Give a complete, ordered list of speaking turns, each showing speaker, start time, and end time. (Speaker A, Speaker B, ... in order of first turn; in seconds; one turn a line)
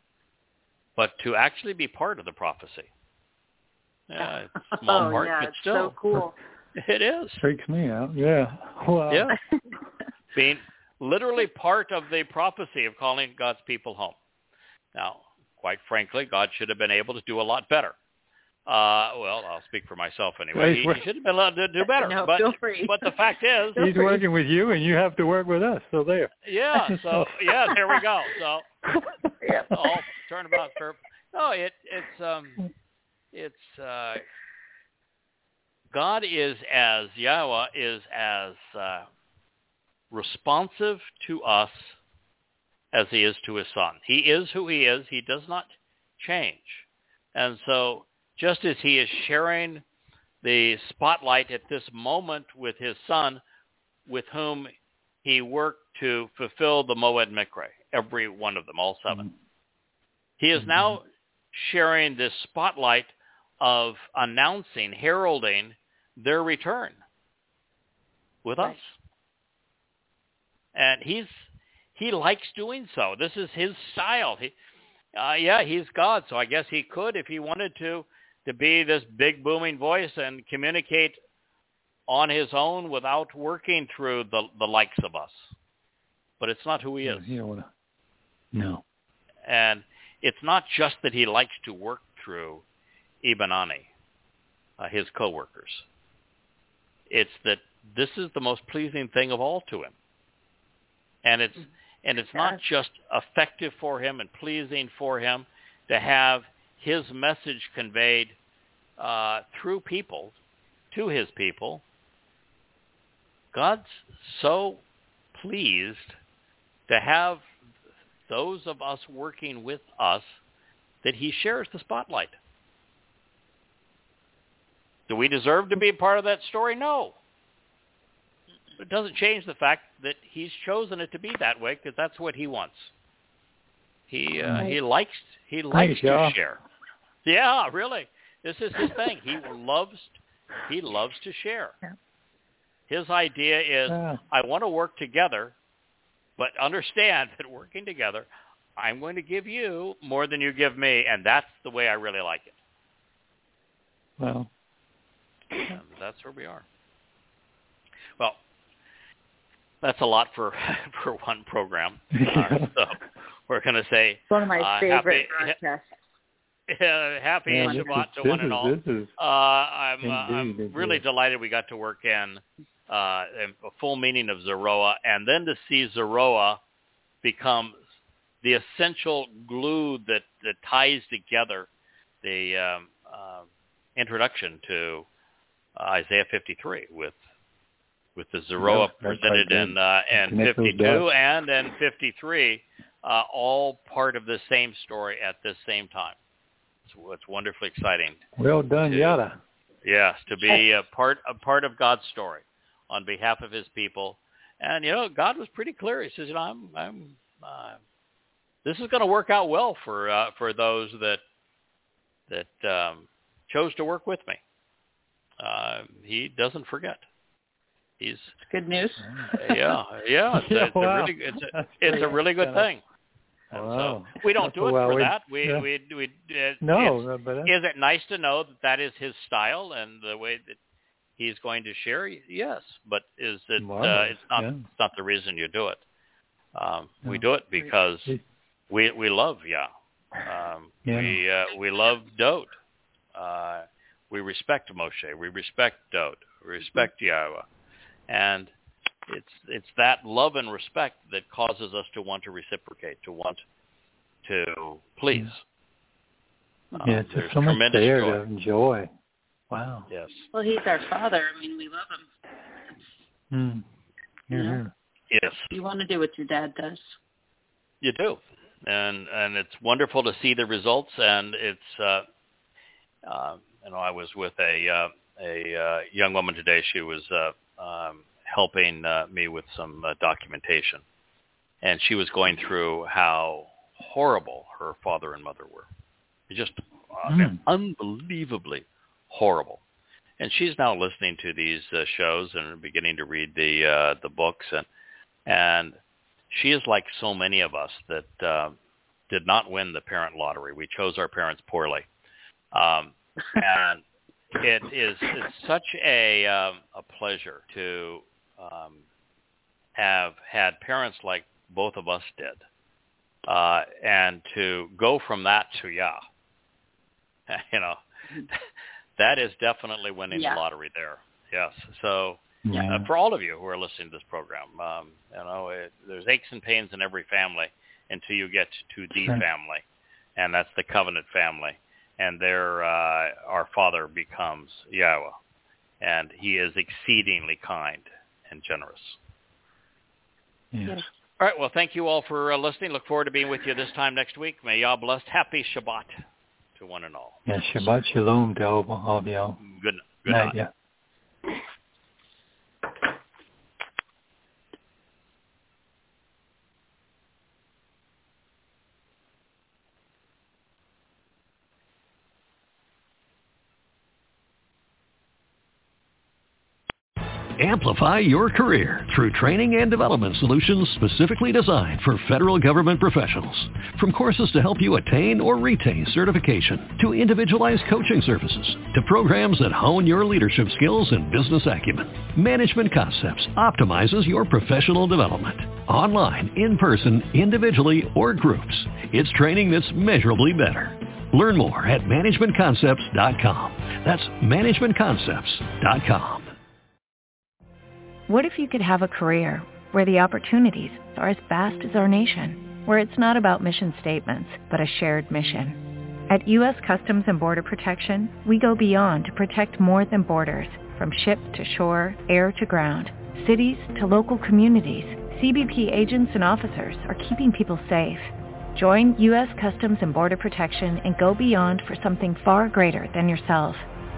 Speaker A: 0.9-2.9
Speaker A: 4.1-5.9
Speaker B: 4.2-6.3
Speaker A: 6.8-7.4
Speaker C: 7.4-9.4
Speaker A: 9.1-9.4
Speaker A: 10.3-14.2
Speaker A: 14.9-17.9
Speaker A: 18.6-23.9
Speaker C: 20.5-21.1
Speaker B: 22.0-23.1
Speaker C: 23.8-27.7
Speaker B: 23.8-24.2
Speaker A: 26.4-28.6
Speaker B: 29.4-29.7
Speaker A: 29.7-32.7
Speaker A: 33.3-34.2
Speaker A: 35.9-39.1
Speaker A: 40.1-42.0
Speaker A: 42.9-49.8
Speaker A: 50.4-53.4
Speaker A: 54.1-54.7
Speaker A: 55.2-59.3
Speaker A: 60.4-67.0
Speaker C: 60.6-61.0
Speaker A: 68.4-68.9
Speaker A: 70.7-74.5
Speaker A: 75.2-81.2
Speaker A: 82.1-85.5
Speaker A: 86.4-87.3
Speaker C: 87.0-87.7
Speaker C: 88.5-88.8
Speaker A: 89.5-92.6
Speaker A: 93.2-93.9
Speaker A: 94.8-95.8
Speaker A: 97.1-99.9
Speaker A: 101.2-108.3
Speaker A: 109.0-110.3
Speaker A: 110.9-111.8
Speaker A: 113.5-116.2
Speaker A: 116.9-117.5
Speaker A: 118.3-120.4
Speaker A: 121.0-122.4
Speaker A: 125.1-127.2
Speaker A: 128.8-132.9
Speaker A: 134.1-136.6
Speaker C: 134.4-134.7
Speaker C: 135.7-136.4
Speaker A: 137.2-141.8
Speaker A: 142.9-145.6
Speaker C: 143.9-144.2
Speaker A: 146.4-152.5
Speaker C: 154.2-154.5
Speaker A: 155.7-156.6
Speaker A: 159.8-165.6
Speaker C: 162.1-162.7
Speaker B: 164.3-165.8
Speaker A: 166.7-176.6
Speaker C: 167.5-169.1
Speaker B: 167.6-167.9
Speaker C: 170.0-171.0
Speaker A: 177.2-177.8
Speaker A: 178.4-181.7
Speaker A: 182.2-185.1
Speaker A: 185.7-187.2
Speaker A: 188.2-196.2
Speaker C: 188.6-191.1
Speaker A: 196.9-198.2
Speaker C: 198.4-199.4
Speaker A: 198.8-199.2
Speaker A: 199.8-207.8
Speaker A: 208.6-211.2
Speaker A: 212.3-214.4
Speaker A: 215.4-217.1
Speaker A: 218.0-218.3
Speaker B: 218.4-219.7
Speaker C: 219.0-219.3
Speaker A: 219.3-222.8
Speaker C: 220.3-222.7
Speaker C: 223.5-225.7
Speaker A: 223.5-230.6
Speaker C: 226.6-227.5
Speaker A: 231.2-235.8
Speaker C: 233.6-234.6
Speaker A: 236.5-238.1
Speaker A: 238.7-242.6
Speaker C: 240.8-241.2
Speaker A: 243.1-247.4
Speaker A: 248.1-248.5
Speaker A: 249.1-253.4
Speaker A: 254.2-255.4
Speaker A: 256.8-258.2
Speaker C: 256.8-258.9
Speaker C: 259.5-259.9
Speaker A: 259.9-260.3
Speaker B: 260.3-262.1
Speaker C: 263.3-263.6
Speaker C: 264.3-264.7
Speaker B: 264.3-264.6
Speaker A: 265.1-265.5
Speaker B: 265.5-266.9
Speaker A: 267.8-272.0
Speaker A: 273.1-280.8
Speaker A: 281.6-285.7
Speaker A: 286.3-289.6
Speaker C: 287.1-287.4
Speaker A: 290.2-294.7
Speaker A: 295.3-295.8
Speaker A: 296.3-298.6
Speaker A: 299.1-301.9
Speaker A: 302.5-303.8
Speaker A: 304.4-308.8
Speaker A: 309.8-312.4
Speaker A: 313.3-316.0
Speaker A: 317.3-318.4
Speaker A: 319.0-329.6
Speaker B: 320.1-320.4
Speaker C: 322.4-322.9
Speaker A: 330.1-335.1
Speaker A: 335.8-339.0
Speaker C: 340.5-340.9
Speaker A: 341.2-346.0
Speaker A: 346.6-347.2
Speaker C: 347.3-349.4
Speaker A: 349.4-350.4
Speaker C: 350.1-350.5
Speaker D: 367.4-396.3
Speaker E: 398.1-423.6